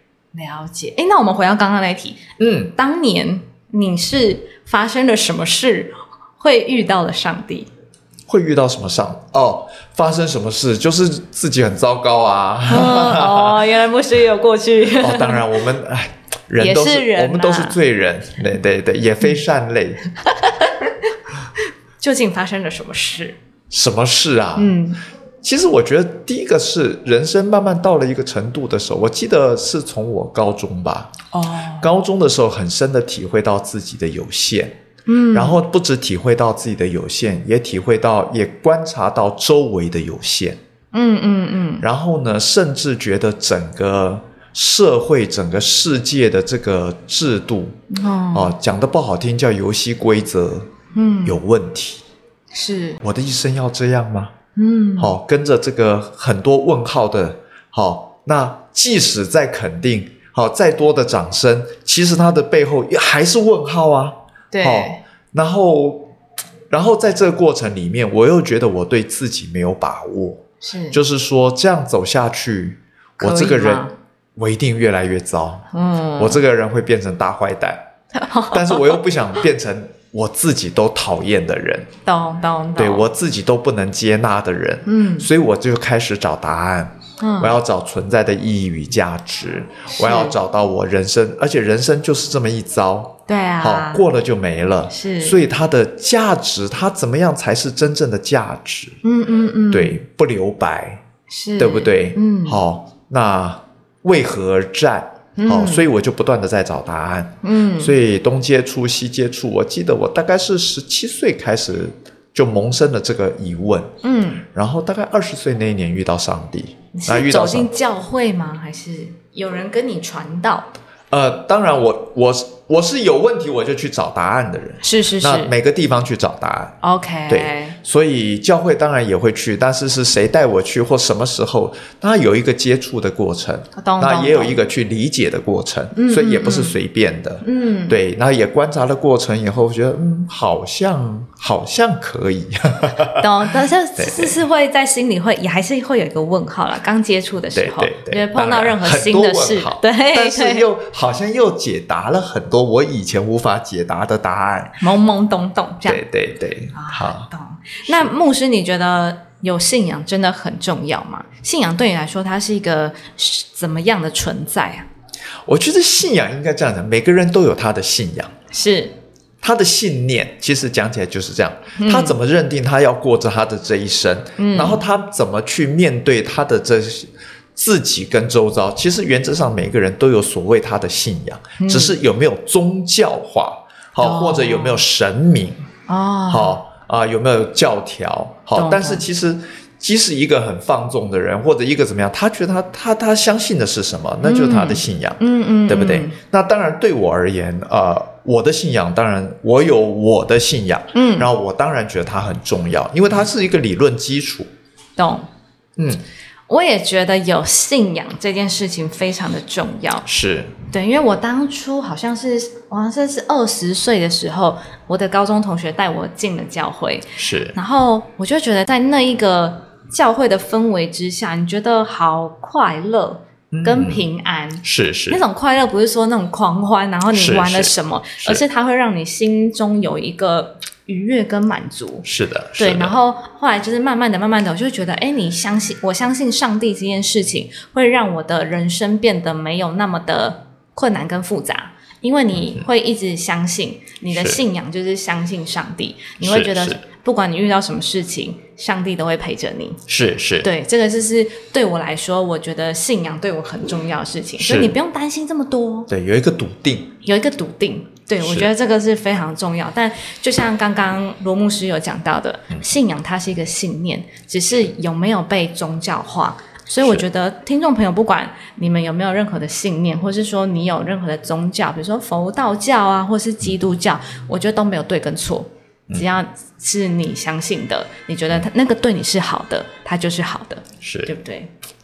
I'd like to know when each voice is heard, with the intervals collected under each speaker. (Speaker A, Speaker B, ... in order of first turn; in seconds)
Speaker A: 0.3-2.2, 2.7-7.7, 12.7-15.5, 16.6-17.8, 20.2-20.9, 22.0-23.4, 24.6-25.0, 31.3-31.9, 35.1-35.6, 40.9-41.9, 47.9-48.5, 50.9-51.4, 52.5-53.0, 54.6-55.2, 64.5-65.0, 70.6-71.0, 73.2-73.9, 75.7-76.4, 78.1-79.0, 82.0-83.0, 84.8-85.3, 87.2-87.6, 89.9-90.3, 93.3-94.0, 94.9-95.4, 99.0-100.0, 101.3-102.6, 105.4-105.9, 107.4-108.0, 114.0-114.5, 116.9-120.7, 124.8-125.5, 126.8-127.8, 133.8-134.6, 135.9-136.8, 137.4-138.0, 143.2-150.7, 154.8-156.0, 156.7-164.9, 168.5-169.0, 171.8-172.2, 174.4-174.8, 181.6-182.0, 184.0-184.8, 185.9-186.6, 188.6-189.1, 194.2-196.2, 200.9-201.3, 205.0-205.3, 206.5-210.1, 210.7-232.1, 232.6-249.8, 250.4-255.9, 257.0-281.5
Speaker B: 2.4-2.7, 8.3-13.6, 15.0-20.0, 23.7-24.8, 25.4-31.1, 31.8-34.8, 35.3-40.6, 41.8-47.8, 48.3-50.7, 51.2-52.0, 53.0-54.3, 55.0-66.1, 66.7-75.7, 76.2-77.9, 78.5-81.9, 82.8-99.0, 99.7-101.0, 101.6-113.9, 114.5-117.7, 121.1-126.8, 127.3-144.4, 147.6-154.8, 155.8-157.3, 157.9-158.1, 165.5-168.3, 169.4-185.7, 186.3-204.5, 205.8-206.0, 210.1-210.6, 217.2-217.6, 223.5-224.1, 224.6-225.2, 227.1-228.4, 232.0-233.0, 244.1-244.4, 246.2-246.8, 249.9-250.5, 254.4-254.8, 255.9-256.9, 258.2-258.5, 280.8-281.1